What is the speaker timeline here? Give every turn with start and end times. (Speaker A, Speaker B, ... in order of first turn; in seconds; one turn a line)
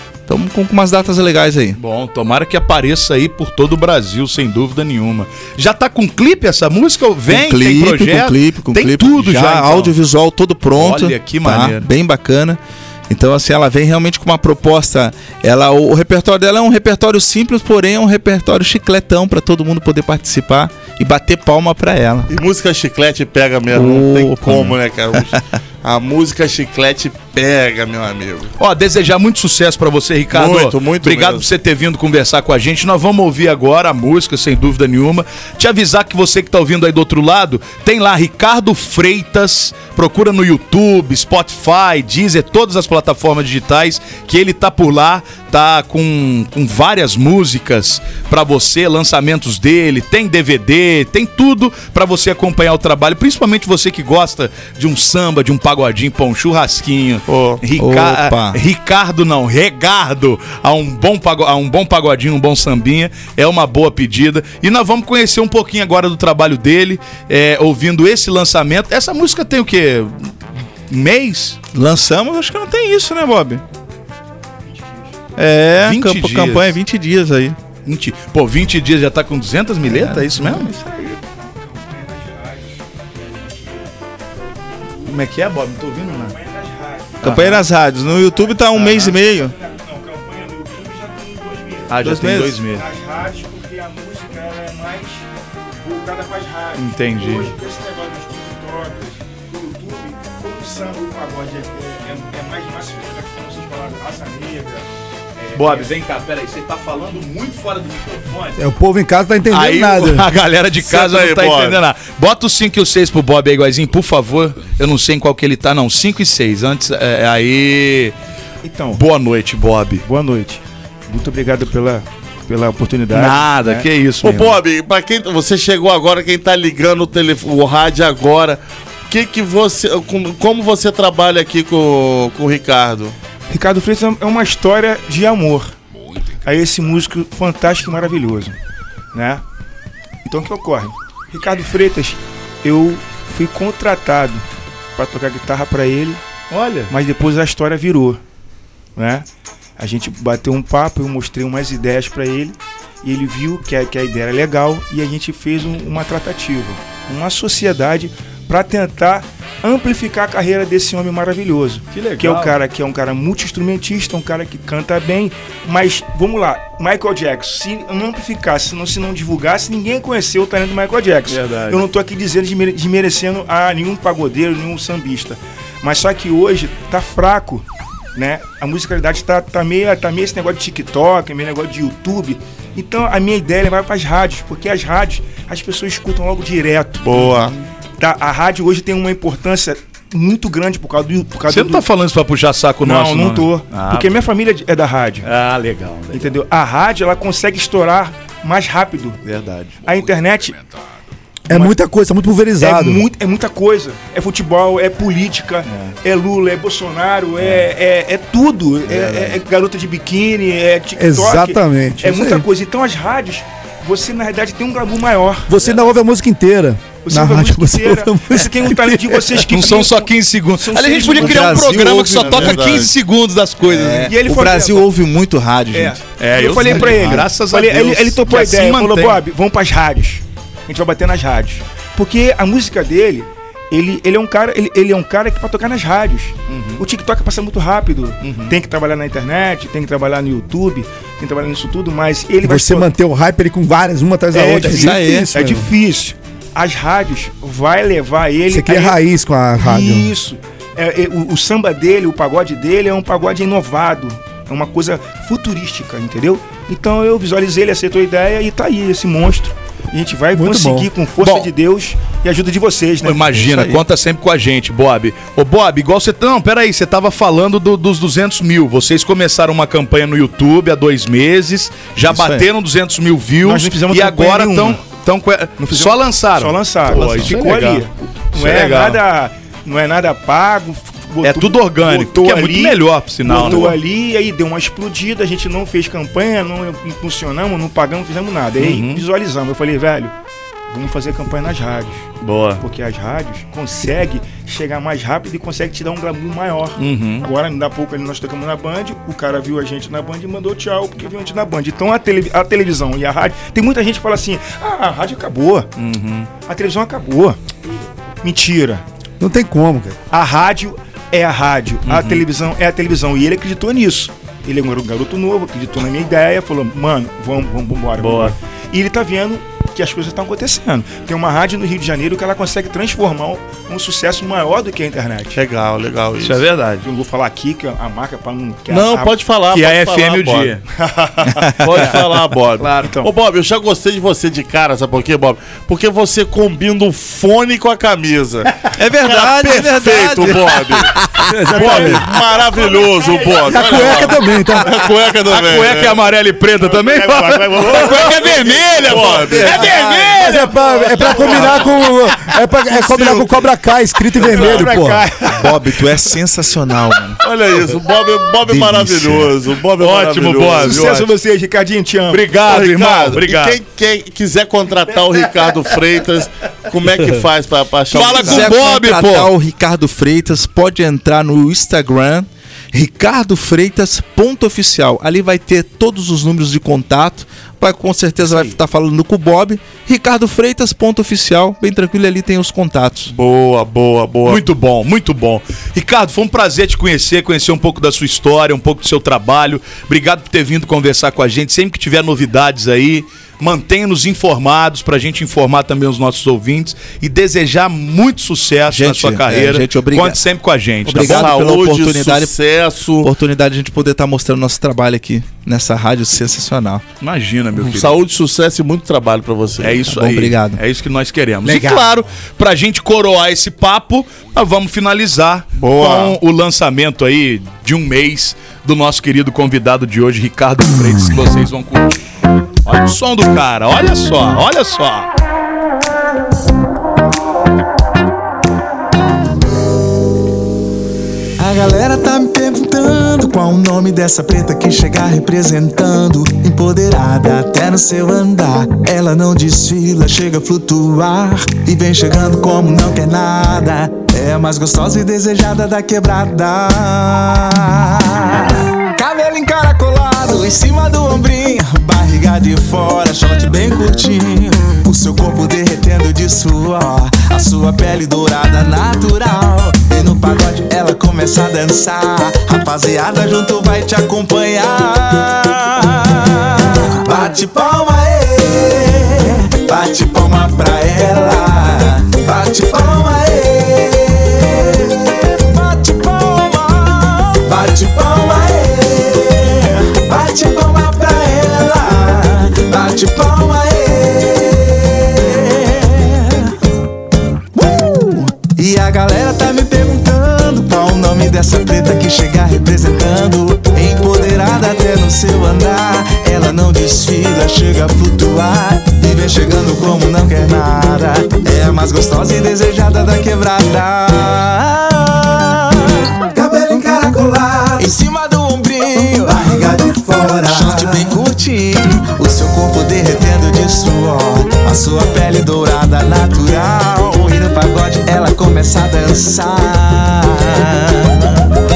Speaker A: 0.3-1.8
Speaker B: 1.8-9.9
Speaker A: 7.3-22.3
Speaker B: 10.8-11.8
Speaker C: 22.3-28.5
Speaker A: 23.7-25.4
Speaker B: 28.6-70.3
Speaker C: 30.3-31.5
Speaker C: 57.3-57.6
Speaker A: 57.8-58.6
Speaker B: 70.9-71.6
Speaker A: 71.7-73.6
Speaker D: 74.6-75.2
Speaker A: 75.4-77.6
Speaker B: 75.8-76.8
Speaker B: 77.9-80.7
Speaker A: 79.8-81.2
Speaker D: 81.3-85.3
Speaker B: 85.0-86.3
Speaker D: 86.0-87.5
Speaker B: 87.2-87.6
Speaker A: 87.2-89.5
Speaker D: 88.1-95.3
Speaker B: 91.9-92.8
Speaker A: 92.0-92.6
Speaker D: 95.8-105.9
Speaker B: 96.8-97.5
Speaker B: 105.5-108.6
Speaker E: 108.6-110.3
Speaker B: 109.5-118.2
Speaker C: 110.8-111.8
Speaker D: 118.6-119.0
Speaker B: 118.9-120.0
Speaker D: 120.1-123.9
Speaker B: 123.1-124.6
Speaker C: 124.2-133.2
Speaker D: 133.5-135.8
Speaker D: 136.4-138.6
Speaker D: 139.1-139.4
Speaker D: 140.2-144.4
Speaker D: 145.0-146.2
Speaker B: 146.5-146.9
Speaker D: 146.9-148.2
Speaker D: 149.0-149.3
Speaker D: 149.8-177.6
Speaker B: 161.9-162.6
Speaker B: 171.3-171.8
Speaker D: 178.2-187.4
Speaker C: 187.0-187.5
Speaker D: 188.0-191.9
Speaker B: 191.5-194.2
Speaker D: 192.8-195.3
Speaker B: 195.2-196.4
Speaker D: 196.1-199.2
Speaker B: 199.2-199.8
Speaker D: 199.8-200.6
Speaker D: 201.5-201.8
Speaker E: 201.5-203.1
Speaker D: 202.6-215.5
Speaker B: 205.7-205.9
Speaker B: 207.4-207.7
Speaker B: 208.9-209.4
Speaker E: 211.0-212.4
Speaker E: 215.5-219.4
Speaker D: 217.0-221.6
Speaker B: 219.4-224.2
Speaker A: 221.1-222.9
Speaker C: 221.2-222.9
Speaker A: 223.6-226.0
Speaker D: 224.0-224.9
Speaker D: 225.7-242.9
Speaker B: 226.2-229.2
Speaker A: 226.6-227.2
Speaker B: 236.5-236.9
Speaker B: 238.2-238.6
Speaker E: 242.4-245.7
Speaker D: 244.3-249.0
Speaker A: 244.7-245.3
Speaker E: 248.5-250.1
Speaker D: 249.6-263.7
Speaker E: 260.4-260.9
Speaker B: 261.2-261.5
Speaker B: 263.0-279.0
Speaker A: 263.5-263.8
Speaker A: 272.1-272.5
Speaker D: 273.4-274.8
Speaker D: 275.6-290.1
Speaker A: 276.9-277.3
Speaker B: 281.2-283.8
Speaker B: 288.6-289.0
Speaker D: 290.7-305.7
Speaker B: 292.2-292.6
Speaker B: 296.8-297.3
Speaker B: 305.8-306.3
Speaker D: 306.4-308.8
Speaker E: 309.2-310.0
Speaker D: 310.1-325.4
Speaker B: 311.9-312.2
Speaker B: 318.0-318.4
Speaker C: 325.4-326.4
Speaker B: 326.2-326.9
Speaker D: 326.8-329.2
Speaker C: 328.7-341.0
Speaker B: 329.5-330.6
Speaker B: 331.6-333.0
Speaker A: 338.7-341.3
Speaker E: 341.3-342.1
Speaker C: 341.5-346.0
Speaker B: 341.5-341.9
Speaker D: 342.6-344.4
Speaker E: 343.5-344.7
Speaker B: 345.2-351.7
Speaker D: 346.6-348.5
Speaker C: 347.6-350.0
Speaker A: 349.4-349.8
Speaker D: 349.5-351.7
Speaker E: 350.1-355.1
Speaker C: 351.1-351.6
Speaker C: 352.7-353.5
Speaker C: 354.2-354.9
Speaker D: 354.2-355.7
Speaker A: 355.3-357.2
Speaker C: 357.2-361.0
Speaker A: 358.4-359.4
Speaker B: 359.8-361.1
Speaker D: 360.6-362.3
Speaker B: 362.1-363.6
Speaker C: 362.4-368.5
Speaker B: 367.9-369.3
Speaker A: 368.0-383.1
Speaker C: 383.1-384.4
Speaker B: 384.3-401.4
Speaker A: 398.7-400.2
Speaker A: 400.9-402.3
Speaker C: 400.9-403.1
Speaker A: 403.0-406.8
Speaker B: 407.0-408.0
Speaker C: 407.6-409.9
Speaker B: 409.6-422.0
Speaker A: 409.9-410.6
Speaker A: 411.5-411.8
Speaker C: 415.6-416.2
Speaker B: 422.6-425.1
Speaker F: 431.4-486.6
Speaker F: 487.6-521.4
Speaker A: 509.3-511.1